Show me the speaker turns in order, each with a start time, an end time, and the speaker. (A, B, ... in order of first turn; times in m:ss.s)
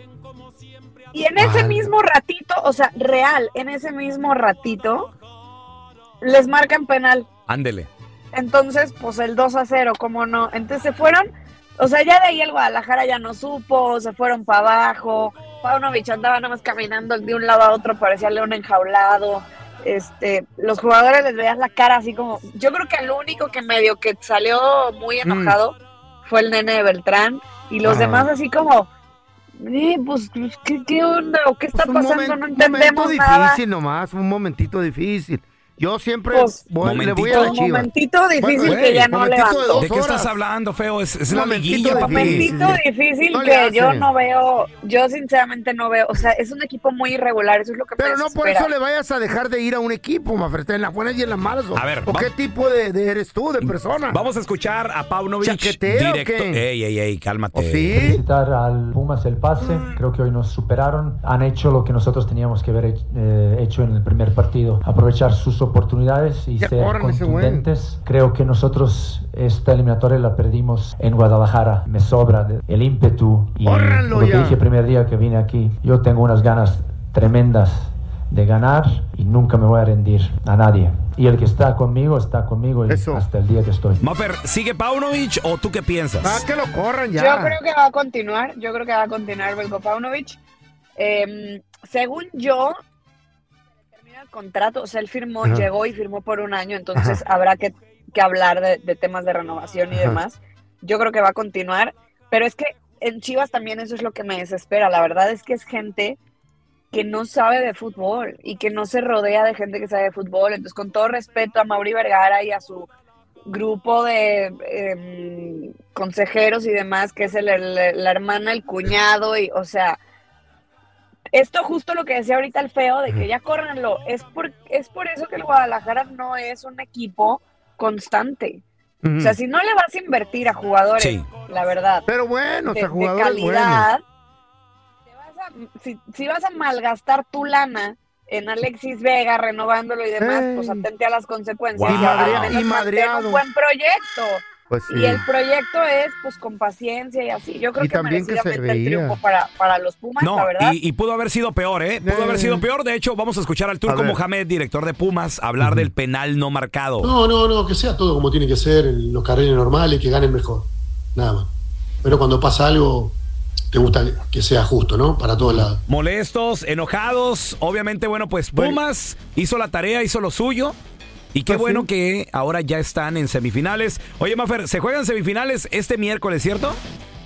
0:01.1-0:05.1 A
0:01.4-0:01.9 B
0:06.2-0:07.3 A
0:07.5-0:07.9 C
0:08.3-0:11.3 A
0:11.8-0:28.9 A
0:25.2-0:25.6 B
0:27.8-0:28.3 B
0:29.6-0:33.6 A
0:31.7-0:40.3 B
0:36.3-0:36.6 A
0:36.8-0:37.6 C
0:37.3-0:39.8 A
0:38.6-0:39.1 C
0:39.8-0:42.5 C
0:41.3-0:44.1 B
0:41.9-0:48.7 A
0:48.0-0:54.2 B
0:51.7-0:52.3 C
0:53.6-0:58.0 C
0:55.4-0:56.6 B
0:57.5-0:58.2 B
0:58.0-1:24.0 D
1:06.6-1:07.7 B
1:13.6-1:14.6 B
1:22.9-1:23.3 B
1:24.0-1:26.4 C
1:26.2-1:27.6 B
1:27.1-1:30.4 A
1:31.0-1:32.7 A
1:34.0-1:46.2 A
1:39.9-1:40.2 B
1:46.9-1:52.9 A
1:53.5-2:00.0 A
2:01.3-2:08.6 A
2:09.0-2:09.4 B
2:09.2-2:12.1 A
2:11.0-2:11.3 C
2:12.1-2:13.9 B
2:12.7-2:14.0 A
2:15.1-2:30.8 A
2:20.2-2:20.8 B
2:21.7-2:22.6 C
2:21.8-2:23.4 B
2:24.7-2:25.2 B
2:27.8-2:29.2 B
2:30.2-2:37.1 C
2:32.0-2:32.6 B
2:33.8-2:34.2 B
2:35.6-2:35.9 B
2:37.0-2:41.5 E
2:42.0-2:43.2 E
2:43.7-2:45.8 E
2:45.4-2:45.6 B
2:45.9-2:50.8 C
2:48.5-2:48.8 B
2:51.3-2:56.8 C
2:51.5-2:51.9 B